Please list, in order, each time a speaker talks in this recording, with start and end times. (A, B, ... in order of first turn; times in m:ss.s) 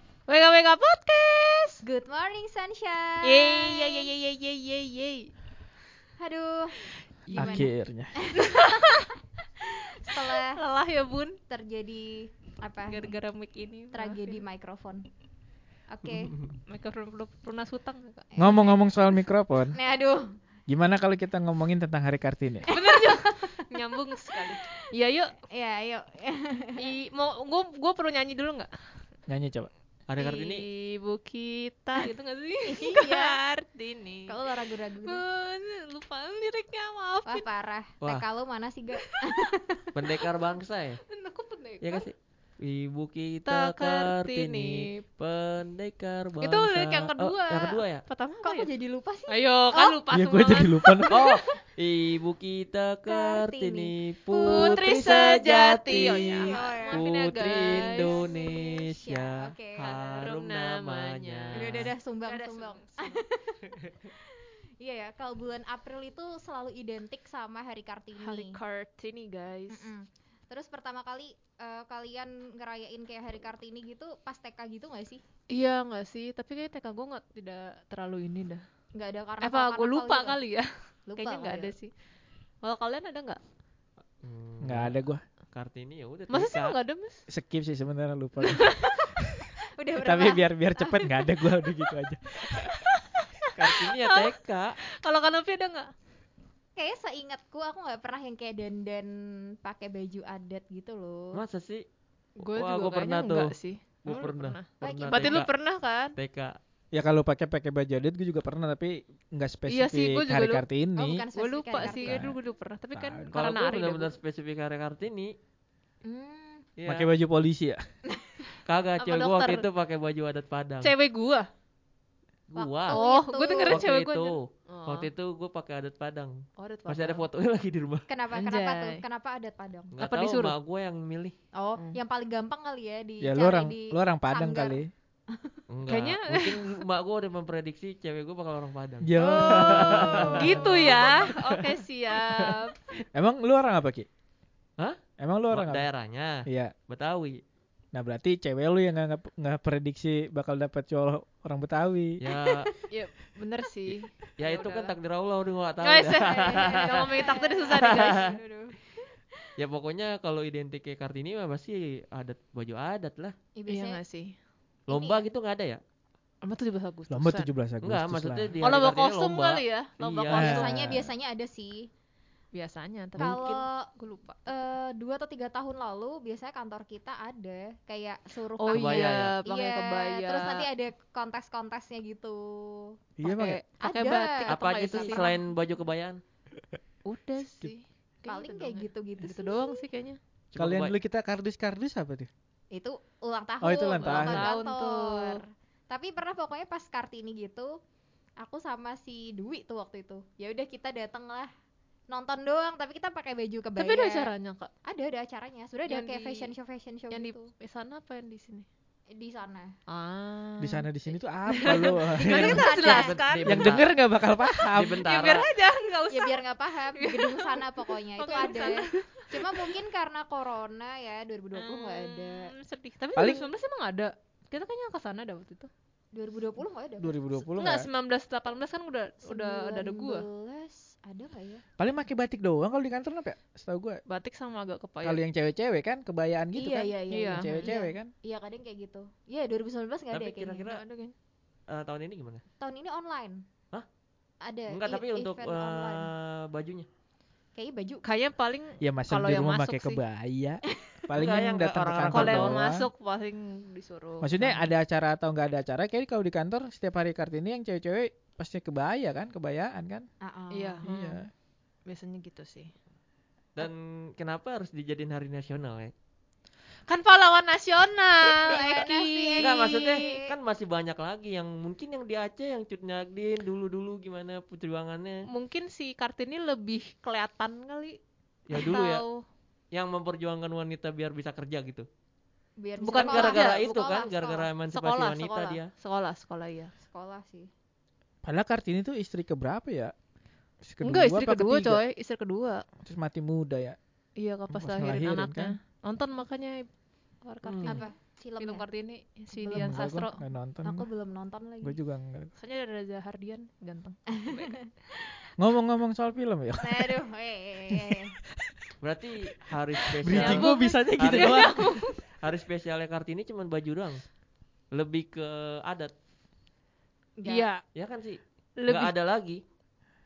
0:00.3-0:01.8 A
0:01.8-0:04.1 B
0:03.2-0:05.3 A
0:06.2-0:09.1 B
0:07.3-0:07.7 A
0:07.4-0:08.1 C
0:08.4-0:09.1 A
0:10.0-0:10.6 B
0:10.3-0:11.4 A
0:11.5-0:13.1 B
0:12.9-0:14.4 A
0:13.9-0:15.1 B
0:15.9-0:16.3 B
0:16.7-0:18.3 A
0:18.4-0:19.7 C
0:18.4-0:18.7 B
0:19.7-0:20.3 B
0:20.7-0:22.7 C
0:22.7-0:23.8 B
0:22.7-0:25.4 A
0:25.5-0:26.9 B
0:26.8-0:28.7 A
0:29.3-0:29.7 C
0:30.1-0:30.6 D
0:30.2-0:37.4 A
0:32.6-0:33.4 B
0:34.3-0:35.2 B
0:37.2-0:39.9 B
0:39.9-0:41.0 D
0:41.1-0:42.1 A
0:41.8-0:48.0 D
0:43.4-0:45.0 A
0:46.4-0:48.7 A
0:48.4-0:50.0 B
0:49.3-0:51.1 A
0:50.1-0:51.2 C
0:51.1-1:01.9 D
0:53.1-0:54.8 B
0:54.4-0:58.4 A
0:55.9-0:59.9 B
0:59.8-1:01.7 A
1:01.5-1:08.6 B
1:02.2-1:03.2 A
1:08.2-1:09.9 A
1:09.7-1:15.2 B
1:15.5-1:18.6 A
1:18.9-1:20.4 B
1:19.4-1:21.9 A
1:21.1-1:21.8 B
1:22.6-1:23.4 A
1:24.2-1:25.0 D
1:24.6-1:25.2 C
1:25.5-1:26.8 D
1:26.3-1:27.2 A
1:27.3-1:29.4 C
1:28.5-1:28.8 A
1:29.8-1:31.3 B
1:30.0-1:33.0 C
1:32.8-1:34.3 A
1:33.5-1:34.8 D
1:34.9-1:35.9 A
1:36.8-1:41.4 B
1:41.3-1:41.8 D
1:42.4-1:46.1 A
1:42.5-1:43.5 D
1:44.0-1:45.5 D
1:44.8-1:45.4 B
1:46.1-1:46.6 D
1:46.9-1:51.2 C
1:49.7-1:50.6 A
1:51.0-1:52.3 B
1:51.3-1:54.1 A
1:51.8-1:52.3 C
1:52.9-1:53.5 C
1:53.3-1:55.3 D
1:56.0-1:56.7 B
1:56.8-1:57.1 D
1:56.9-1:57.8 C
1:58.1-1:58.4 B
1:58.6-2:00.9 D
1:59.0-1:59.7 A
2:00.8-2:01.5 A
2:02.5-2:03.0 D
2:02.6-2:03.8 B
2:02.9-2:05.1 A
2:03.6-2:08.1 D
2:06.6-2:07.3 A
2:08.1-2:09.9 B
2:08.3-2:09.0 A
2:10.0-2:11.3 D
2:10.0-2:10.5 A
2:11.6-2:15.6 B
2:13.2-2:14.9 C
2:15.7-2:21.1 D
2:15.9-2:16.8 A
2:19.0-2:21.7 C
2:19.2-2:22.8 A
2:22.3-2:22.6 C
2:23.1-2:24.1 C
2:24.8-2:27.4 D
2:25.2-2:25.8 C
2:26.4-2:26.7 C
2:27.9-2:32.2 C
2:32.2-2:32.7 D
2:32.9-2:34.9 A
2:34.4-2:37.2 D
2:35.8-2:38.3 A
2:36.2-2:38.9 B
2:37.7-2:38.2 D
2:39.6-2:43.4 D
2:43.5-2:44.0 B
2:43.7-2:44.3 A
2:44.9-2:45.8 D
2:44.9-2:45.2 B
2:46.4-2:47.5 A
2:47.1-2:48.5 C
2:47.8-2:50.7 D
2:48.6-2:50.9 A
2:50.3-2:51.0 C
2:50.4-2:51.9 B
2:52.5-2:54.5 A
2:53.2-2:53.9 B
2:53.2-2:53.6 D
2:54.4-3:05.3 B
2:58.6-3:00.7 A
2:58.7-2:59.4 D
3:03.2-3:03.6 C
3:03.2-3:05.3 A
3:04.5-3:06.2 D
3:07.0-3:10.2 A
3:08.3-3:09.8 B
3:10.5-3:11.0 D
3:10.6-3:12.3 C
3:12.7-3:17.7 B
3:13.6-3:14.5 C
3:13.9-3:15.4 A
3:18.4-3:21.5 B
3:22.1-3:24.3 B
3:23.8-3:24.7 A
3:24.9-3:27.5 B
3:25.8-3:26.5 A
3:27.1-3:28.7 A
3:29.1-3:29.7 B
3:29.9-3:30.8 A
3:30.6-3:32.9 C
3:31.1-3:33.2 B
3:31.5-3:33.6 A
3:32.7-3:33.9 D
3:33.4-3:35.1 C
3:34.7-3:35.5 D
3:35.0-3:36.4 A
3:36.0-3:42.4 B
3:36.9-3:39.7 A
3:41.6-3:45.7 A
3:43.1-3:43.5 C
3:46.1-3:47.2 B
3:47.0-3:47.9 C
3:47.5-3:50.2 A
3:49.2-3:51.6 B
3:51.8-3:54.0 C
3:54.1-3:55.2 A
3:55.0-3:58.1 C
3:56.6-4:00.6 B
3:57.1-3:57.7 A
4:00.1-4:00.8 D
4:00.6-4:01.1 A
4:01.7-4:02.4 D
4:02.6-4:03.4 B
4:04.4-4:06.1 B
4:04.7-4:06.9 D
4:07.6-4:08.0 B
4:08.0-4:10.0 A
4:08.8-4:12.9 C
4:11.1-4:12.6 D
4:12.1-4:14.6 A
4:14.2-4:20.1 C
4:20.2-4:20.8 B
4:20.5-4:21.2 A
4:20.8-4:21.3 C
4:21.9-4:22.7 A
4:23.6-4:25.9 D
4:26.9-4:30.2 A
4:28.4-4:30.3 B
4:29.4-4:35.2 D
4:35.3-4:38.0 A
4:38.5-4:39.0 D
4:38.5-4:39.2 A
4:39.7-4:41.9 D
4:42.6-4:44.5 B
4:42.8-4:43.6 A
4:42.9-4:45.7 D
4:44.7-4:46.7 A
4:46.8-4:47.5 B
4:48.2-4:49.9 C
4:50.6-4:51.8 C
4:50.8-4:52.6 A
4:52.8-4:53.8 C
4:54.2-4:56.6 A
4:54.5-4:55.5 C
4:57.2-4:57.9 A
4:57.4-4:57.8 D
4:57.7-4:58.6 B
4:58.4-5:00.2 A
4:59.4-4:59.9 B
4:59.5-5:00.9 C
5:00.6-5:01.8 B
5:01.6-5:02.3 C
5:02.4-5:04.7 A
5:05.4-5:07.0 C
5:06.6-5:08.1 B
5:08.8-5:11.6 D
5:10.0-5:11.8 C
5:10.1-5:12.0 A
5:12.2-5:14.0 D
5:14.7-5:15.9 D
5:17.2-5:17.5 B
5:17.2-5:17.6 A
5:17.7-5:19.4 D
5:18.6-5:18.9 A